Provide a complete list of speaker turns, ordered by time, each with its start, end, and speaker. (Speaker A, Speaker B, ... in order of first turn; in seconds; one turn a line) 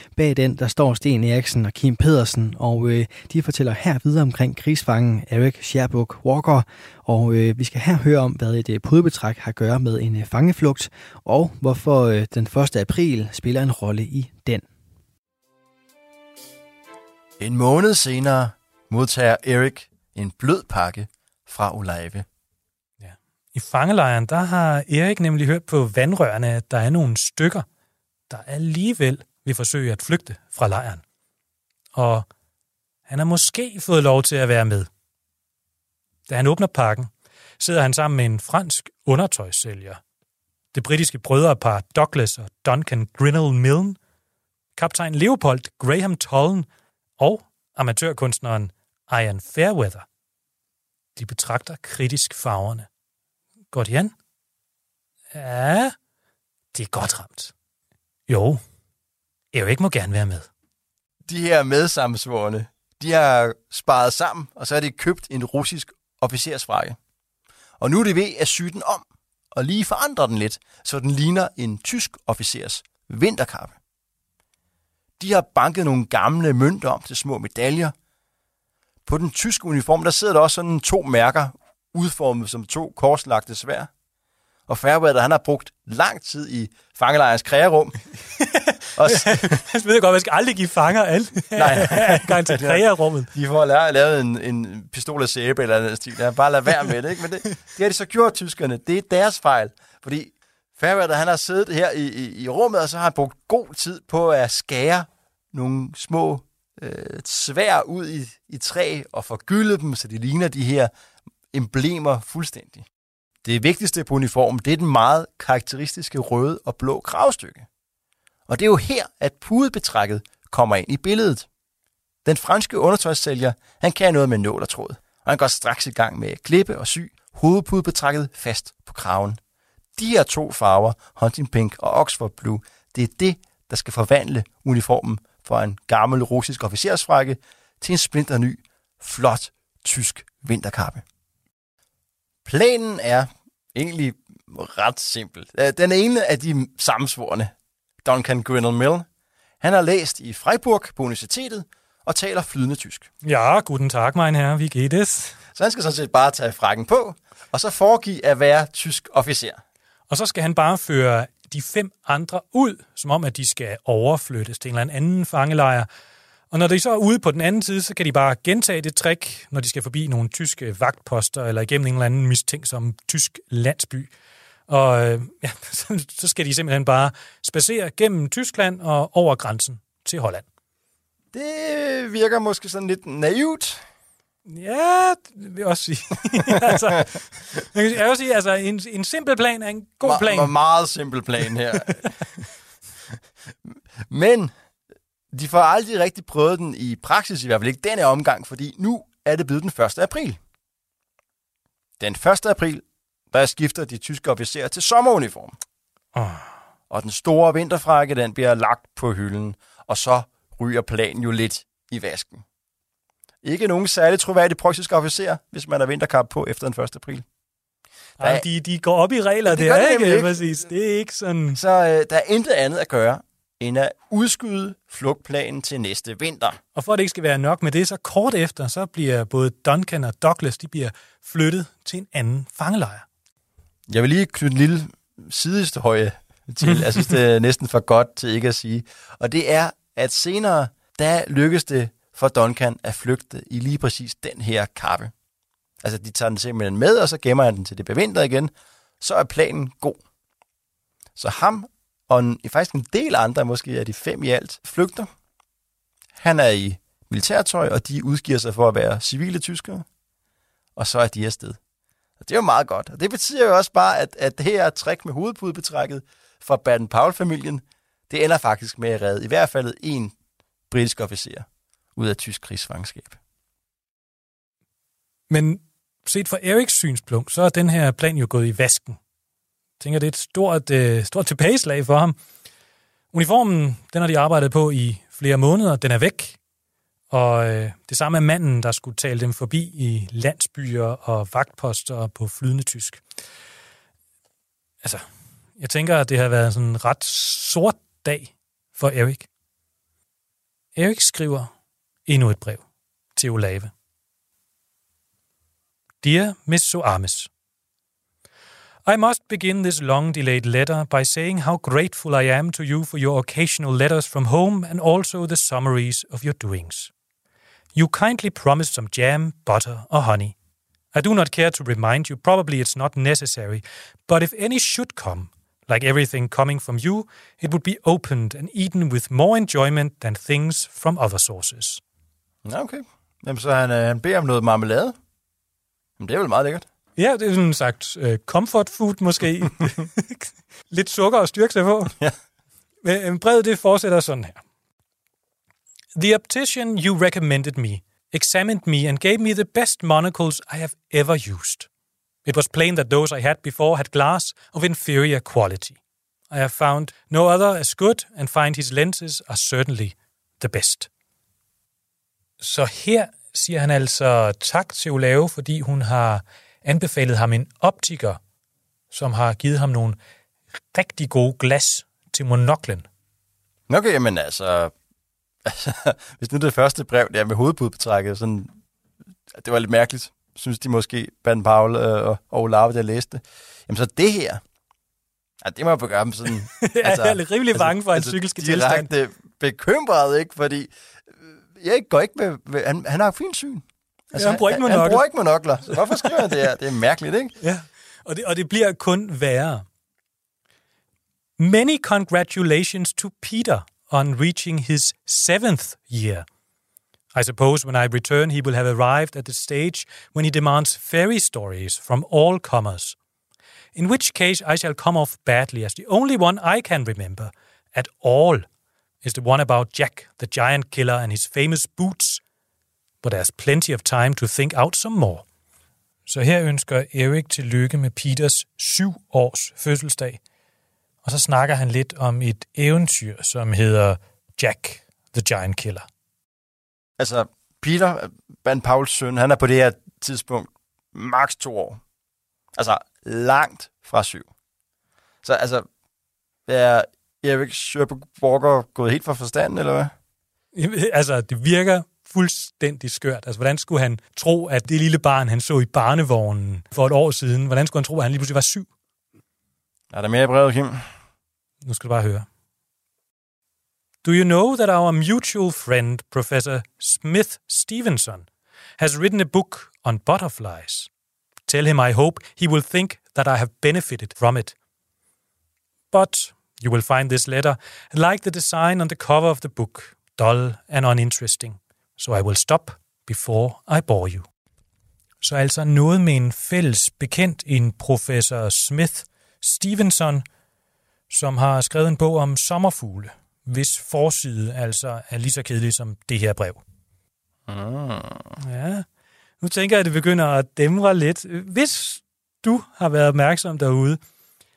Speaker A: 0.1-14.6
Speaker B: 17.4-22.2
Speaker C: 23.0-27.6
Speaker C: 28.3-31.0
Speaker C: 31.9-32.2
Speaker C: 33.1-34.9
Speaker C: 36.3-40.0
Speaker C: 40.7-44.0
Speaker C: 44.7-46.7
Speaker C: 47.2-50.0
Speaker C: 51.1-52.9
Speaker C: 53.7-54.1
Speaker C: 55.3-55.9
Speaker C: 56.7-57.5
Speaker C: 58.3-58.6
Speaker C: 59.5-60.5
Speaker B: 61.2-67.0
Speaker B: 67.8-73.8
Speaker B: 75.2-77.9
Speaker B: 79.0-83.9
Speaker B: 84.7-88.0
Speaker C: 88.4-93.3
Speaker B: 88.9-89.6
Speaker B: 91.5-110.9
Speaker B: 111.5-112.9
Speaker B: 113.4-117.7
Speaker B: 118.5-121.5
Speaker B: 122.2-129.4
Speaker B: 130.0-141.0
Speaker B: 142.4-147.5
Speaker B: 148.0-149.1
Speaker B: 149.6-153.1
Speaker C: 153.2-155.4
Speaker B: 155.5-159.6
Speaker C: 160.1-165.9
Speaker C: 166.5-174.1
Speaker C: 174.7-180.4
Speaker B: 181.3-183.8
Speaker C: 184.4-190.5
Speaker B: 190.0-192.4
Speaker B: 193.6-194.5
Speaker B: 195.3-200.4
Speaker B: 202.0-205.6
Speaker C: 206.1-206.5
Speaker B: 206.9-212.4
Speaker B: 213.4-217.2
Speaker B: 218.2-218.4
Speaker C: 218.2-221.6
Speaker B: 219.4-220.3
Speaker B: 221.5-226.6
Speaker C: 226.7-233.1
Speaker B: 233.9-245.1
Speaker B: 245.8-250.0
Speaker B: 251.2-255.1
Speaker B: 256.2-259.8
Speaker B: 260.8-261.6
Speaker B: 262.2-270.1
Speaker B: 270.7-273.2
Speaker C: 275.3-279.0
Speaker C: 279.8-282.1
Speaker C: 283.1-286.4
Speaker C: 287.1-293.0
Speaker C: 295.6-299.3
Speaker C: 300.8-301.5
Speaker C: 302.1-302.6
Speaker C: 303.1-303.7
Speaker C: 306.0-307.3
Speaker C: 308.9-316.9
Speaker C: 317.7-320.3
Speaker C: 320.9-331.8
Speaker B: 332.4-334.9
Speaker B: 336.0-336.6
Speaker C: 337.0-342.0
Speaker C: 342.8-344.4
Speaker C: 345.9-351.7
Speaker C: 352.2-355.8
Speaker C: 356.3-360.9
Speaker C: 362.4-368.2
Speaker C: 368.9-370.0
Speaker C: 370.7-372.9
Speaker B: 373.7-374.7
Speaker B: 375.4-378.5
Speaker B: 379.3-384.4
Speaker B: 385.4-397.3
Speaker C: 386.5-388.9
Speaker C: 394.1-395.0
Speaker C: 395.7-396.4
Speaker C: 397.4-399.6
Speaker C: 401.4-406.2
Speaker C: 407.1-412.9
Speaker C: 413.7-418.4
Speaker C: 419.0-422.2
Speaker C: 423.0-425.2
Speaker C: 426.1-430.2
Speaker C: 431.0-435.9
Speaker B: 437.0-441.8
Speaker B: 442.6-444.3
Speaker B: 445.2-445.7
Speaker B: 446.5-449.9
Speaker C: 450.5-458.7
Speaker B: 459.9-460.9
Speaker C: 461.6-462.2
Speaker C: 464.0-468.2
Speaker C: 468.8-470.9
Speaker C: 471.5-474.6
Speaker C: 475.9-484.2
Speaker C: 485.2-490.2
Speaker C: 491.1-496.6
Speaker B: 497.5-498.4
Speaker C: 498.4-498.9
Speaker C: 499.4-504.0